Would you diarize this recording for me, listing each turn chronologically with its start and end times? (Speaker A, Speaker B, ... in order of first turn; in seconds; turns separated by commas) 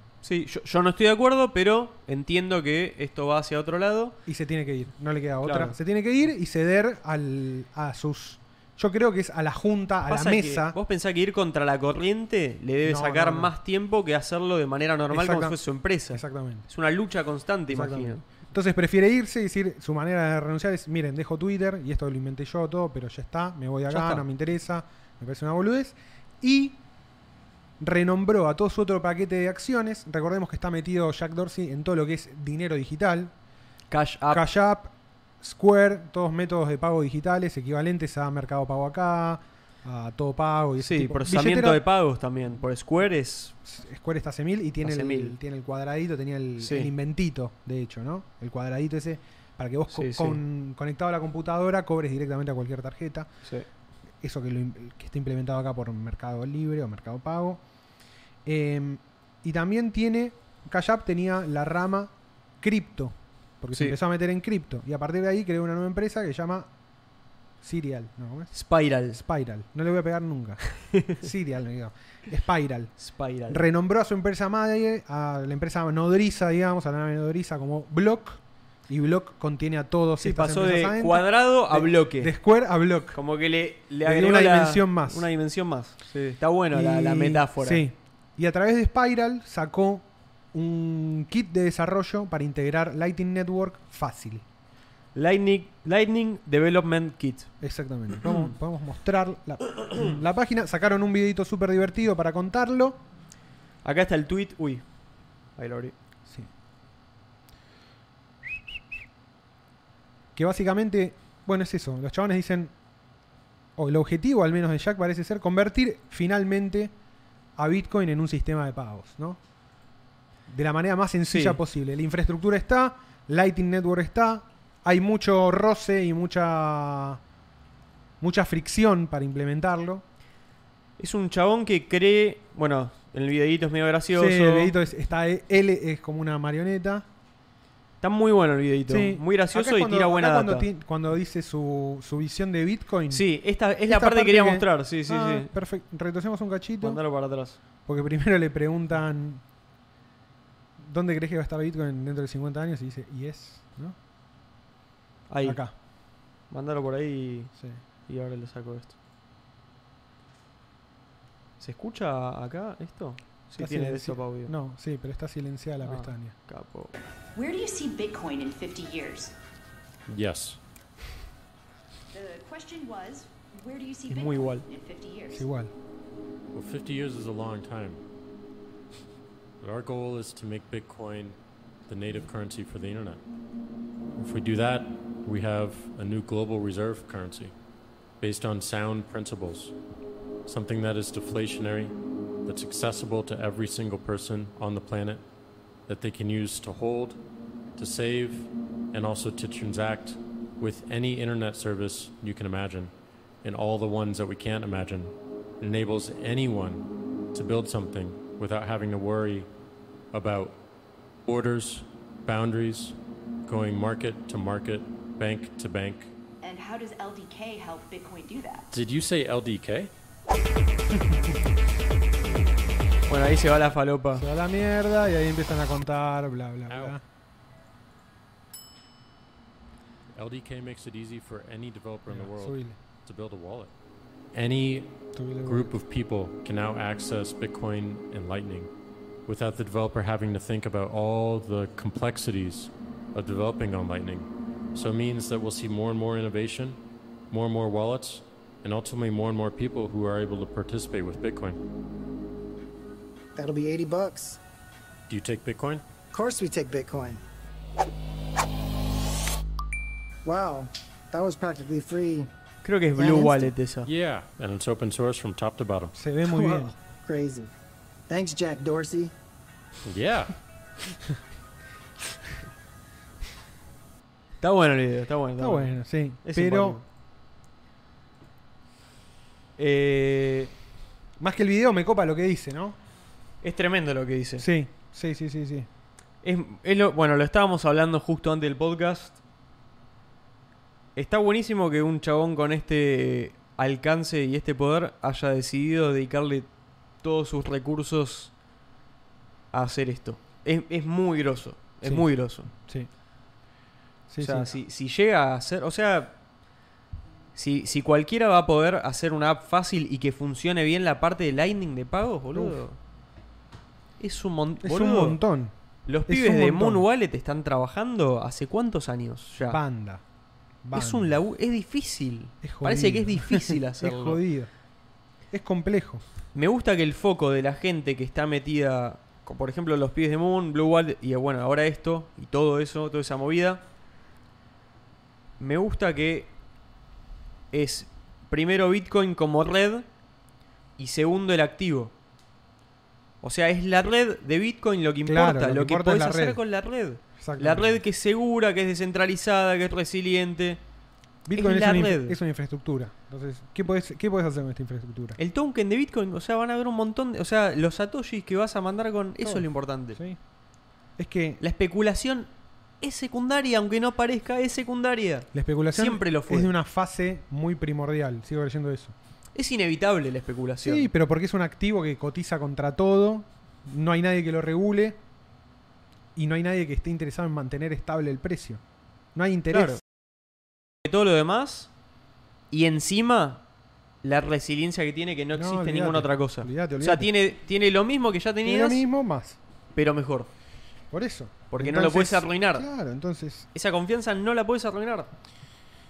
Speaker A: 0.2-4.2, Speaker B: 4.2-10.8, Speaker A: 5.4-5.7, Speaker A: 10.1-18.2, Speaker B: 12.8-13.5, Speaker B: 15.1-15.6, Speaker B: 16.1-16.6, Speaker B: 17.7-26.8, Speaker A: 23.9-24.2, Speaker B: 27.8-33.3, Speaker A: 33.9-34.5, Speaker B: 34.3-41.8, Speaker A: 40.8-43.5, Speaker B: 43.6-53.3, Speaker A: 44.8-45.4, Speaker A: 46.6-46.9, Speaker A: 49.9-50.4, Speaker B: 54.2-57.6, Speaker B: 58.4-66.7, Speaker B: 67.6-68.5, Speaker A: 68.5-69.2, Speaker B: 69.1-72.9, Speaker A: 70.9-71.2, Speaker A: 73.0-73.6, Speaker B: 73.5-83.2, Speaker A: 80.2-82.3, Speaker A: 83.1-87.8, Speaker B: 84.0-85.3, Speaker B: 86.7-94.4, Speaker A: 95.1-97.5, Speaker B: 97.6-103.0, Speaker A: 98.2-98.5, Speaker A: 103.8-104.8, Speaker A: 105.6-105.9, Speaker B: 110.3-112.7, Speaker B: 113.8-116.9, Speaker B: 117.5-119.4, Speaker B: 120.5-127.2, Speaker A: 121.3-121.6, Speaker B: 128.2-130.0, Speaker A: 131.0-134.7, Speaker B: 134.1-137.1, Speaker A: 138.0-140.7, Speaker B: 138.9-143.2, Speaker A: 143.1-145.5, Speaker B: 143.8-147.0, Speaker A: 146.8-147.6, Speaker B: 147.8-149.4, Speaker B: 150.8-154.0, Speaker A: 155.3-155.6, Speaker B: 155.4-155.7, Speaker A: 156.5-157.5, Speaker A: 158.1-158.9, Speaker A: 161.6-164.5, Speaker B: 163.6-166.3, Speaker A: 165.8-166.9, Speaker C: 167.3-169.3, Speaker D: 170.1-170.6, Speaker C: 172.1-175.4, Speaker A: 174.1-174.7, Speaker B: 175.3-175.7, Speaker D: 176.5-178.0, Speaker D: 179.6-181.3, Speaker D: 181.9-183.2, Speaker D: 184.2-187.5, Speaker D: 188.2-189.7, Speaker D: 190.4-191.9, Speaker D: 192.4-195.2, Speaker D: 195.9-197.2, Speaker D: 197.8-202.9, Speaker D: 203.4-209.5, Speaker D: 210.1-210.6, Speaker D: 211.2-216.1, Speaker C: 216.4-218.7, Speaker D: 218.7-219.9, Speaker A: 223.1-224.2, Speaker B: 224.2-227.0, Speaker D: 226.7-226.9, Speaker D: 230.2-233.7, Speaker B: 232.1-232.8, Speaker D: 234.3-238.7, Speaker B: 235.1-235.8, Speaker D: 239.3-246.8, Speaker D: 247.3-251.6, Speaker E: 253.3-254.4, Speaker D: 255.1-255.8, Speaker E: 256.1-257.2, Speaker E: 260.2-262.3, Speaker A: 262.6-263.9, Speaker E: 262.9-263.5, Speaker D: 263.8-265.9, Speaker B: 265.9-266.7, Speaker E: 266.3-267.5, Speaker E: 268.1-269.1, Speaker D: 269.9-270.3, Speaker A: 274.4-276.8, Speaker B: 275.4-276.8, Speaker A: 279.6-280.5, Speaker B: 281.2-282.8, Speaker A: 283.4-284.5, Speaker B: 284.4-285.7, Speaker A: 286.2-289.2, Speaker A: 290.9-296.5, Speaker A: 297.0-298.3, Speaker A: 299.5-302.5, Speaker B: 301.8-302.9, Speaker B: 304.1-304.5, Speaker A: 304.2-306.1, Speaker A: 307.3-312.8, Speaker A: 314.0-315.2, Speaker B: 314.6-315.5, Speaker A: 315.9-319.6, Speaker B: 316.1-316.9, Speaker B: 319.4-320.0, Speaker B: 320.6-321.1, Speaker A: 320.7-324.2, Speaker B: 322.4-324.5, Speaker B: 325.3-326.0, Speaker A: 326.3-333.6, Speaker A: 335.4-336.3, Speaker A: 337.5-339.9, Speaker A: 340.8-341.9, Speaker A: 343.2-350.6, Speaker B: 345.1-346.4, Speaker B: 347.2-347.8, Speaker B: 351.2-355.2, Speaker A: 351.3-352.2, Speaker A: 355.2-360.0, Speaker B: 359.2-360.2, Speaker B: 361.0-361.4, Speaker A: 361.4-362.3, Speaker A: 362.8-366.5, Speaker B: 365.3-368.9, Speaker A: 369.3-370.9, Speaker B: 370.6-375.0, Speaker B: 376.1-378.6, Speaker B: 379.1-379.8, Speaker A: 379.5-379.8, Speaker A: 380.8-381.7, Speaker A: 382.5-383.4, Speaker A: 384.0-388.8, Speaker B: 385.3-387.1, Speaker B: 388.4-389.4, Speaker A: 389.7-390.3, Speaker B: 390.9-393.5, Speaker A: 391.5-392.6, Speaker A: 393.5-395.1